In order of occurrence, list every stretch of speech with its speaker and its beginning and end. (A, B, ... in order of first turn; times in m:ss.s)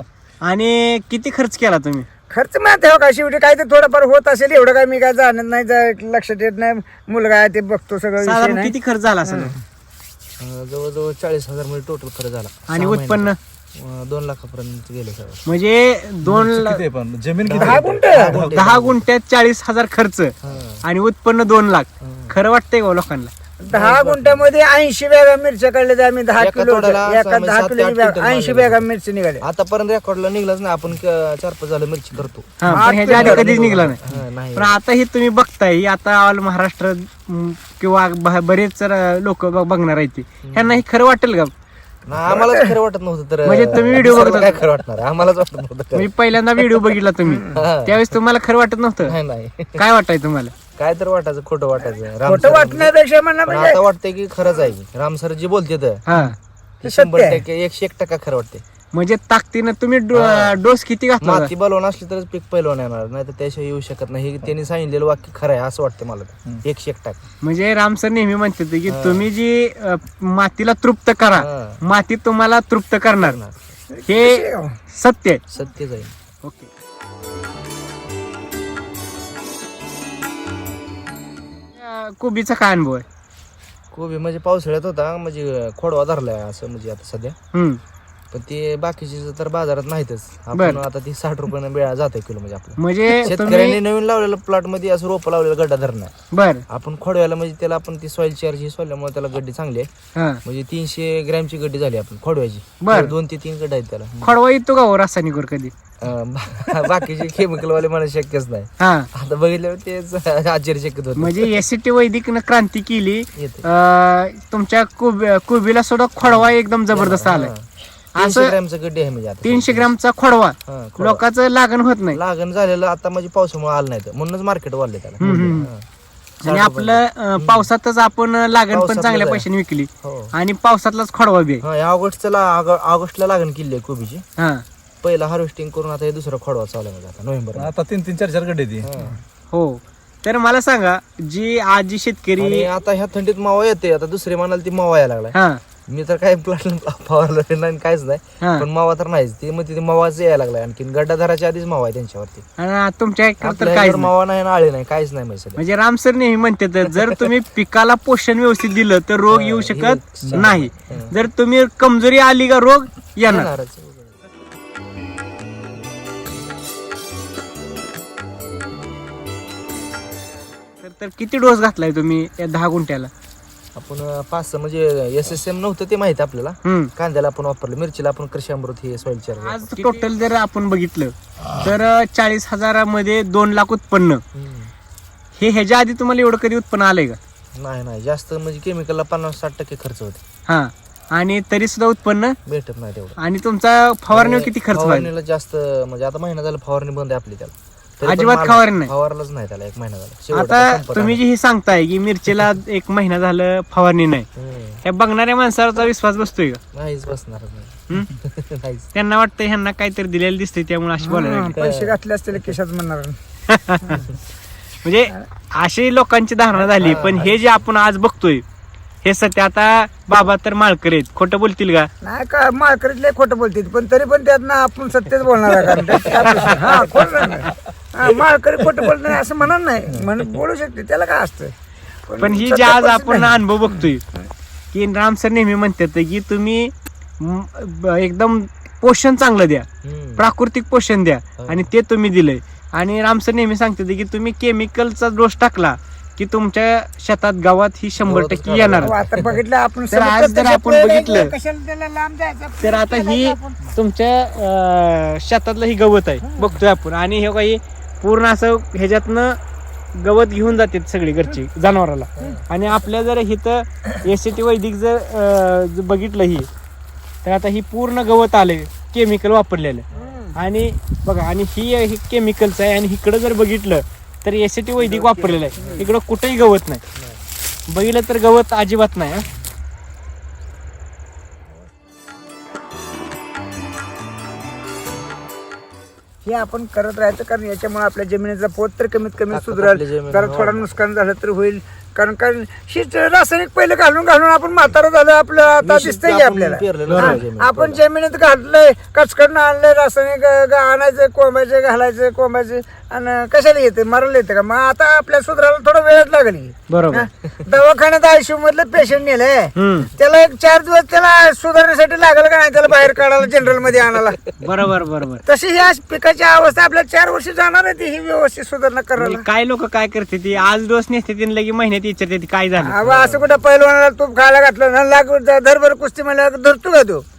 0:00.4-0:02.1 A
0:02.3-0:09.6 B
0:08.2-0:09.5 A
0:10.4-0:15.4 C
0:12.7-0:13.4 A
0:15.4-0:16.8 A
0:16.3-0:18.6 D
0:17.5-0:19.0 C
0:17.6-0:18.4 B
0:18.4-0:23.3 A
0:20.4-0:20.8 C
0:22.0-0:22.4 C
0:23.6-0:29.4 B
0:23.7-0:24.5 C
0:26.4-0:28.8 C
0:29.4-0:34.8 C
0:32.6-0:34.0 A
0:32.7-0:33.7 B
0:34.6-0:41.5 A
0:40.5-0:40.8 C
0:42.1-0:46.9 C
0:42.2-0:42.8 B
0:43.4-0:44.6 A
0:46.0-0:49.2 A
0:47.2-0:47.6 B
0:47.5-0:48.0 C
0:49.0-0:49.8 C
0:49.8-0:50.5 A
0:50.8-0:52.9 C
0:52.2-0:53.8 B
0:53.5-0:56.0 C
0:56.1-0:56.4 A
0:56.8-0:58.6 C
0:56.8-0:57.4 B
0:58.9-1:01.5 A
1:00.1-1:00.6 C
1:01.2-1:07.2 C
1:07.4-1:13.4 A
1:08.9-1:09.3 C
1:11.4-1:11.8 C
1:13.2-1:13.8 C
1:13.9-1:14.8 B
1:14.1-1:15.4 A
1:15.5-1:16.1 C
1:16.4-1:16.7 A
1:21.7-1:23.0 A
1:23.9-1:27.4 C
1:27.5-1:27.8 A
1:28.3-1:36.1 C
1:30.5-1:30.8 A
1:32.8-1:33.8 A
1:36.3-1:36.6 A
1:36.7-1:39.9 C
1:40.2-1:40.4 A
1:40.4-1:44.4 C
1:42.8-1:43.1 A
1:44.2-1:45.7 A
1:46.0-1:51.6 C
1:48.8-1:49.1 A
1:51.2-1:57.5 A
1:53.4-1:53.7 C
1:56.2-1:57.6 C
1:58.2-1:58.6 A
1:58.2-1:59.9 C
1:59.4-2:02.2 A
2:00.7-2:01.2 C
2:02.1-2:05.8 C
2:05.2-2:05.7 A
2:06.4-2:11.6 A
2:06.4-2:07.7 C
2:08.7-2:09.5 C
2:10.0-2:10.3 C
2:11.6-2:14.2 C
2:14.4-2:14.6 A
2:15.0-2:17.7 C
2:17.6-2:18.9 D
2:18.8-2:19.2 C
2:19.5-2:22.7 A
2:22.4-2:25.4 C
2:25.3-2:25.6 A
2:25.9-2:32.4 C
2:28.4-2:28.7 A
2:32.6-2:34.1 A
2:33.4-2:35.6 C
2:35.6-2:43.5 A
2:36.9-2:37.3 C
2:39.3-2:41.1 C
2:40.2-2:40.6 D
2:43.3-2:44.2 C
2:50.8-2:53.1 A
2:53.8-3:00.0 C
2:56.6-2:56.9 A
2:59.4-3:04.2 A
3:04.3-3:04.7 C
3:05.4-3:07.2 A
3:07.6-3:10.2 C
3:10.5-3:12.4 A
3:12.5-3:13.2 C
3:13.2-3:15.1 A
3:14.1-3:21.2 C
3:18.0-3:18.9 A
3:20.3-3:24.3 A
3:24.4-3:24.8 C
3:24.8-3:26.6 A
3:26.7-3:28.9 C
3:28.9-3:31.6 A
3:31.0-3:33.2 B
3:31.6-3:32.0 C
3:33.5-3:34.0 A
3:34.8-3:38.4 A
3:36.6-3:37.3 C
3:39.0-3:41.9 A
3:42.0-3:51.5 B
3:46.1-3:46.7 A
3:52.1-3:54.2 B
3:52.2-3:54.0 A
3:54.7-4:09.0 A
3:59.8-4:00.3 C
4:01.4-4:01.7 C
4:08.0-4:09.4 C
4:08.8-4:13.6 B
4:09.9-4:11.3 A
4:12.6-4:19.4 A
4:16.2-4:16.5 B
4:20.0-4:26.5 A
4:22.2-4:22.4 C
4:27.2-4:36.8 A
4:29.9-4:30.2 C
4:30.0-4:30.4 B
4:34.9-4:35.9 B
4:35.6-4:35.8 C
4:37.7-4:39.3 A
4:46.2-5:14.2 B
4:49.3-4:50.8 C
4:55.6-4:57.8 C
4:56.8-4:57.2 A
5:06.7-5:07.1 A
5:09.6-5:09.9 A
5:14.4-5:15.2 A
5:15.3-5:19.2 B
5:19.0-5:22.8 A
5:22.6-5:27.0 B
5:22.8-5:23.4 C